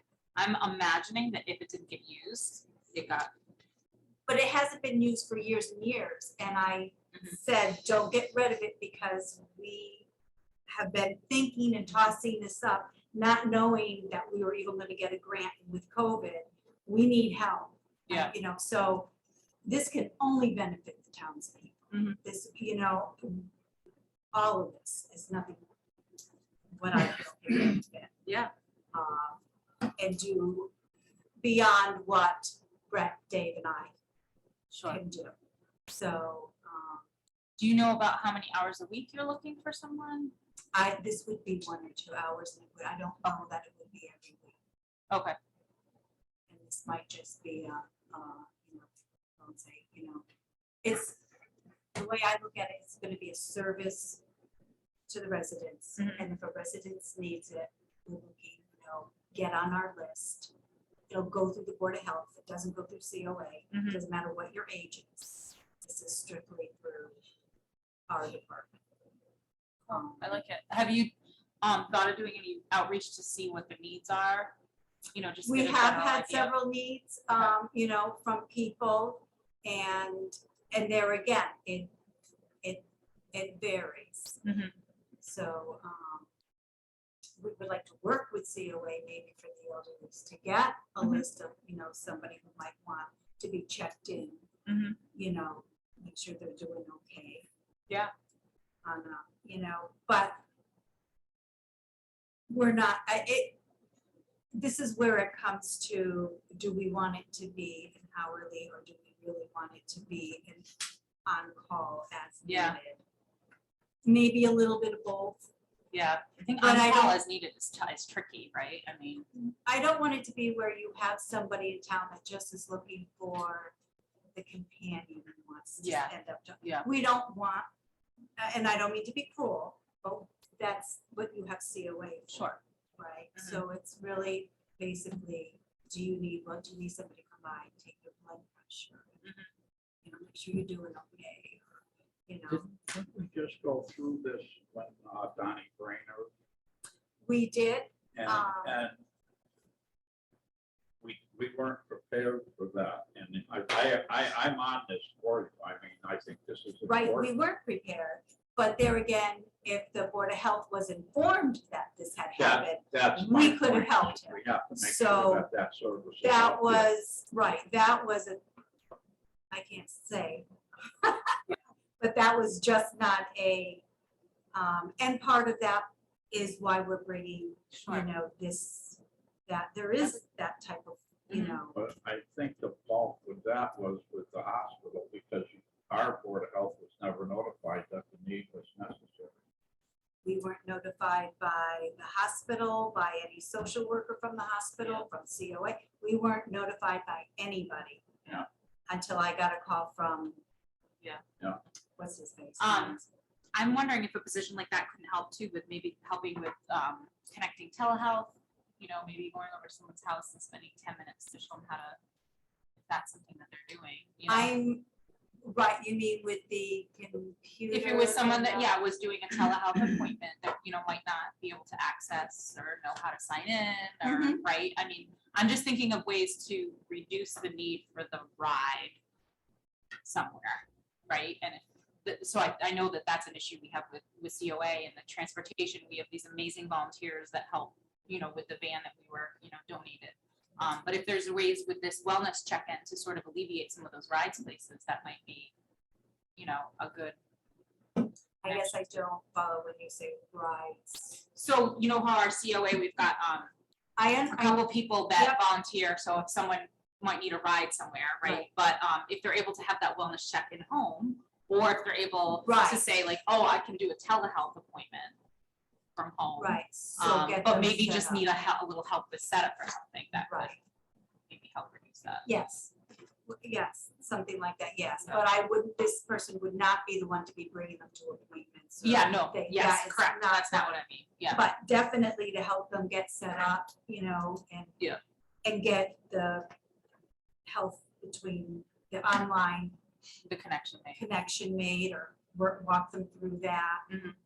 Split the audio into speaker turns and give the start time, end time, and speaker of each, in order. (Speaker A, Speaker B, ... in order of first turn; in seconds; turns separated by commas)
Speaker A: 0.3-3.3, Speaker B: 4.3-10.1, Speaker B: 10.7-19.1, Speaker A: 18.1-18.3, Speaker B: 19.6-23.5, Speaker A: 21.9-22.2, Speaker B: 24.3-25.6, Speaker B: 26.8-28.1, Speaker A: 28.2-28.5, Speaker B: 28.9-29.4, Speaker B: 30.0-30.7, Speaker B: 31.4-33.9, Speaker A: 34.7-35.0, Speaker B: 34.9-35.3, Speaker B: 35.9-37.0, Speaker A: 37.6-40.3, Speaker B: 40.7-44.6, Speaker A: 45.1-45.4, Speaker B: 46.5-48.9, Speaker B: 49.4-50.2, Speaker B: 50.8-51.2, Speaker B: 51.9-54.2, Speaker B: 55.1-60.5, Speaker A: 56.0-56.3, Speaker B: 61.1-67.2, Speaker A: 63.7-64.0, Speaker B: 68.1-68.7, Speaker B: 69.9-70.4, Speaker A: 69.9-74.5, Speaker A: 75.1-76.5, Speaker B: 75.4-81.9, Speaker B: 82.6-84.4, Speaker A: 84.4-84.7, Speaker B: 85.2-86.3, Speaker B: 87.4-94.4, Speaker A: 94.7-95.0, Speaker B: 95.1-97.5, Speaker B: 98.8-100.4, Speaker B: 102.5-103.6, Speaker B: 104.5-113.0, Speaker A: 112.4-112.8, Speaker B: 114.0-115.5, Speaker A: 115.9-119.2, Speaker B: 116.6-117.2, Speaker B: 119.3-123.7, Speaker B: 124.3-127.7, Speaker A: 125.8-126.8, Speaker B: 128.4-139.2, Speaker A: 132.3-132.6, Speaker B: 140.0-142.7, Speaker C: 142.6-146.3, Speaker B: 147.2-148.8, Speaker C: 148.1-149.0, Speaker C: 151.0-157.3, Speaker B: 156.8-165.5, Speaker C: 162.3-166.9, Speaker B: 166.2-168.4, Speaker B: 169.5-173.8, Speaker B: 174.5-181.8, Speaker A: 177.7-178.1, Speaker A: 181.3-181.6, Speaker C: 181.7-189.3, Speaker B: 190.2-198.2, Speaker B: 198.9-200.4, Speaker B: 202.0-203.0, Speaker A: 202.6-203.0, Speaker A: 203.5-212.0, Speaker A: 212.9-214.5, Speaker B: 214.3-214.8, Speaker B: 215.4-218.7, Speaker A: 217.7-229.0, Speaker B: 224.0-224.4, Speaker A: 230.0-245.5, Speaker A: 246.3-247.2, Speaker B: 248.4-251.2, Speaker A: 248.4-248.9, Speaker A: 251.3-253.5, Speaker B: 254.0-255.4, Speaker A: 254.3-265.1, Speaker B: 262.4-262.8, Speaker A: 265.9-270.5, Speaker B: 266.4-268.2, Speaker B: 270.3-270.6, Speaker A: 271.3-272.3, Speaker B: 272.2-272.7, Speaker B: 273.3-280.7, Speaker A: 278.8-281.5, Speaker B: 281.3-284.8, Speaker B: 285.4-286.5, Speaker B: 287.4-289.8, Speaker A: 290.2-291.0, Speaker B: 290.9-293.9, Speaker A: 293.9-294.1